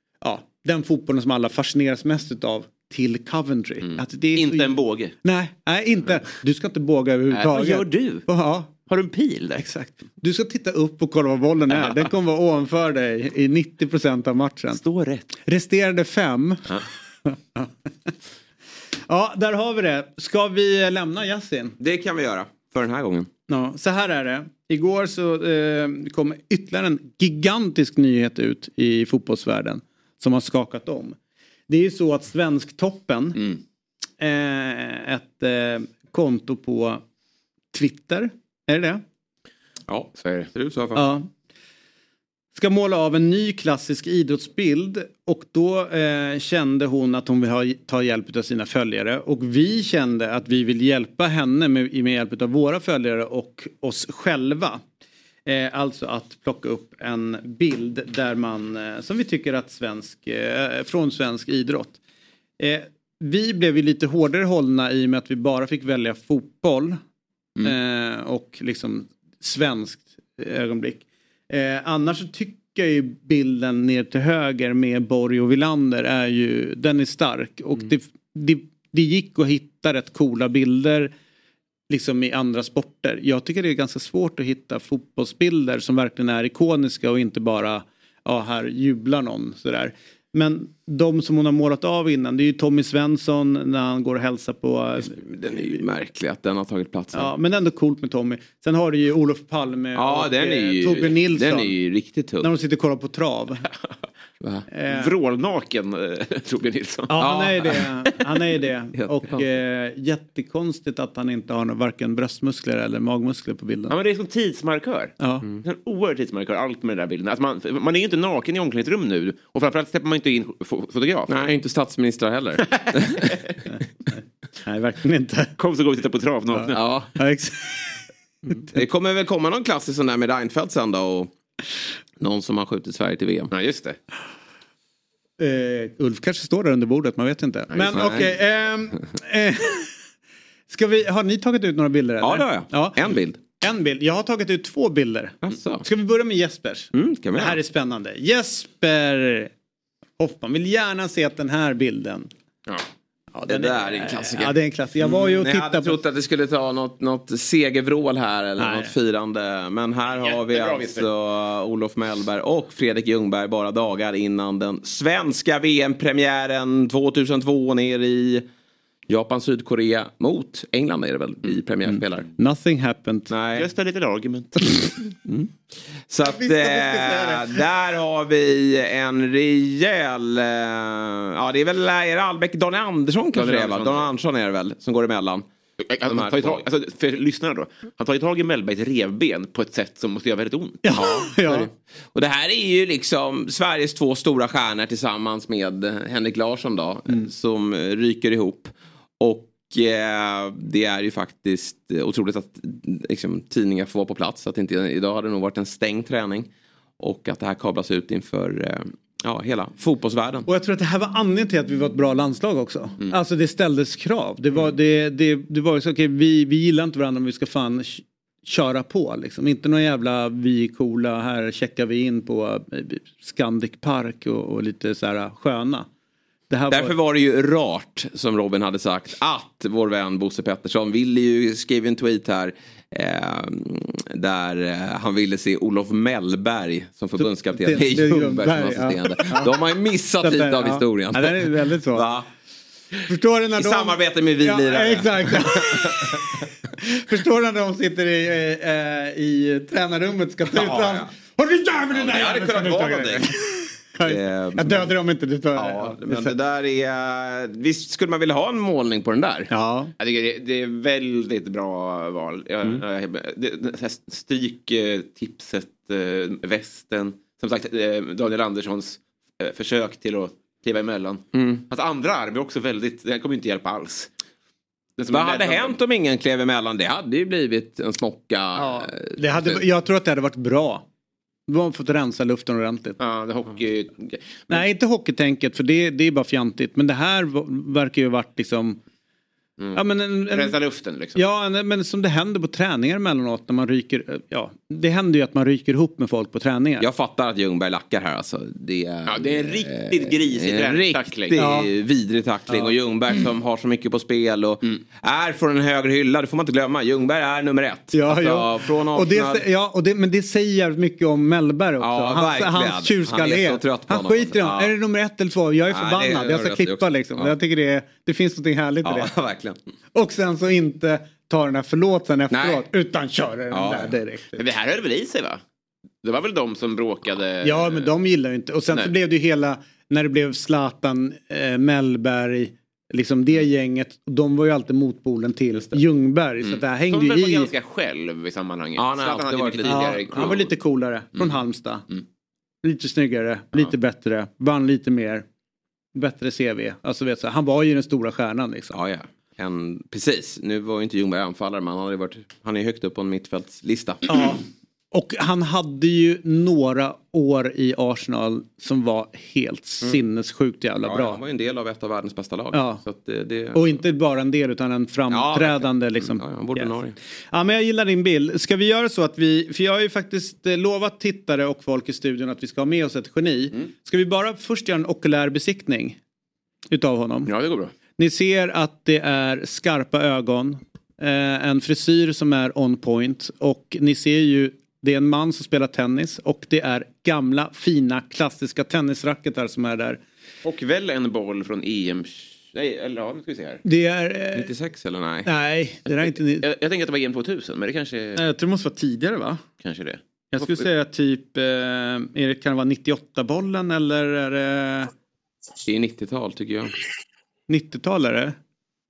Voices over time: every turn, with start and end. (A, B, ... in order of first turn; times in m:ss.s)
0:00.2-0:04.7 A
0:03.9-0:05.1 B
0:05.2-0:08.7 A
0:07.3-0:08.2 B
0:08.9-0:09.7 B
0:09.6-0:14.8 A
0:14.7-0:15.3 B
0:15.5-0:18.1 A
0:19.1-0:21.8 A
0:21.8-0:23.3 C
0:23.5-0:31.2 A
0:31.7-0:33.4 A
0:34.2-0:37.0 A
0:37.7-0:39.0 A
0:39.9-0:41.1 C
0:40.2-0:40.5 B
0:40.9-0:41.3 A
0:42.5-0:54.8 A
0:55.4-1:02.0 A
1:02.6-1:07.0 A
1:07.6-1:21.1 A
1:21.9-1:35.8 A
1:35.1-1:37.3 C
1:37.1-1:41.7 A
1:39.9-1:42.5 C
1:42.4-1:43.6 A
1:44.7-1:45.1 A
1:44.9-1:47.1 B
1:47.1-1:53.9 A
1:47.2-1:47.8 C
1:49.0-1:49.4 C
1:53.9-2:01.4 B
2:01.3-2:03.3 C
2:04.1-2:05.5 A
2:05.6-2:06.8 B
2:06.5-2:08.0 A
2:06.7-2:07.1 C
2:08.5-2:08.8 A
2:08.5-2:11.3 C
2:12.2-2:13.5 C
2:13.5-2:14.0 B
2:15.4-2:19.9 A
2:17.8-2:18.1 B
2:17.9-2:18.3 C
2:20.7-2:23.0 A
2:22.2-2:23.4 C
2:23.6-2:29.5 A
2:25.4-2:25.8 C
2:26.9-2:27.6 C
2:30.2-2:32.3 A
2:33.3-2:36.0 A
2:33.5-2:48.4 C
2:38.6-2:38.9 A
2:40.1-2:41.1 B
2:49.1-2:52.3 C
2:51.8-2:53.3 A
2:53.3-2:53.7 C
2:53.6-2:54.6 B
2:55.2-2:55.5 C
2:56.1-3:05.4 C
2:56.2-2:57.6 A
3:03.4-3:04.1 B
3:05.8-3:10.8 B
3:06.0-3:06.6 C
3:10.8-3:11.7 A
3:10.9-3:30.4 C
3:30.4-3:45.9 A
3:46.5-3:46.9 A
3:46.7-4:02.3 C
3:57.2-3:59.5 A
4:00.2-4:02.0 A
4:03.1-4:16.3 A
4:03.6-4:06.5 C
4:10.5-4:11.1 C
4:11.9-4:13.3 C
4:14.0-4:14.9 C
4:15.6-4:19.5 C
4:19.5-4:19.9 A
4:20.0-4:34.1 B
4:31.3-4:31.6 C
4:35.0-4:35.8 B
4:35.1-4:39.6 C
4:38.5-4:40.8 A
4:41.5-4:43.0 A
4:43.0-4:44.6 B
4:44.5-4:48.8 A
4:49.6-4:51.2 B
4:49.7-4:50.6 A
4:51.1-4:56.9 A
4:56.8-5:09.4 C
4:59.1-5:01.4 B
5:01.4-5:01.7 A
5:02.5-5:02.7 A
5:07.9-5:19.1 A
5:11.8-5:14.7 C
5:15.7-5:17.3 C
5:18.8-5:19.6 C
5:19.9-5:24.4 A
5:22.3-5:22.6 C
5:23.5-5:24.0 C
5:24.4-5:25.4 B
5:26.0-5:27.9 B
5:27.4-5:37.5 A
5:36.4-5:40.5 B
5:38.8-5:40.4 C
5:39.6-5:41.8 A
5:42.6-5:45.2 A
5:45.9-5:48.8 A
5:48.7-5:54.0 C
5:54.1-6:01.2 A
6:00.8-6:03.7 C
6:02.5-6:02.8 A
6:03.5-6:06.7 A
6:05.1-6:06.9 C
6:07.3-6:16.0 A
6:16.7-6:17.3 A
6:17.3-6:17.7 B
6:18.0-6:30.0 A
6:30.4-6:33.6 B
6:33.6-6:34.5 A
6:34.3-6:35.3 C
6:35.2-6:36.4 A
6:36.4-6:38.2 B
6:38.2-6:39.4 A
6:39.6-6:40.6 B
6:40.3-6:44.9 A
6:45.6-6:46.7 C
6:47.5-6:48.4 A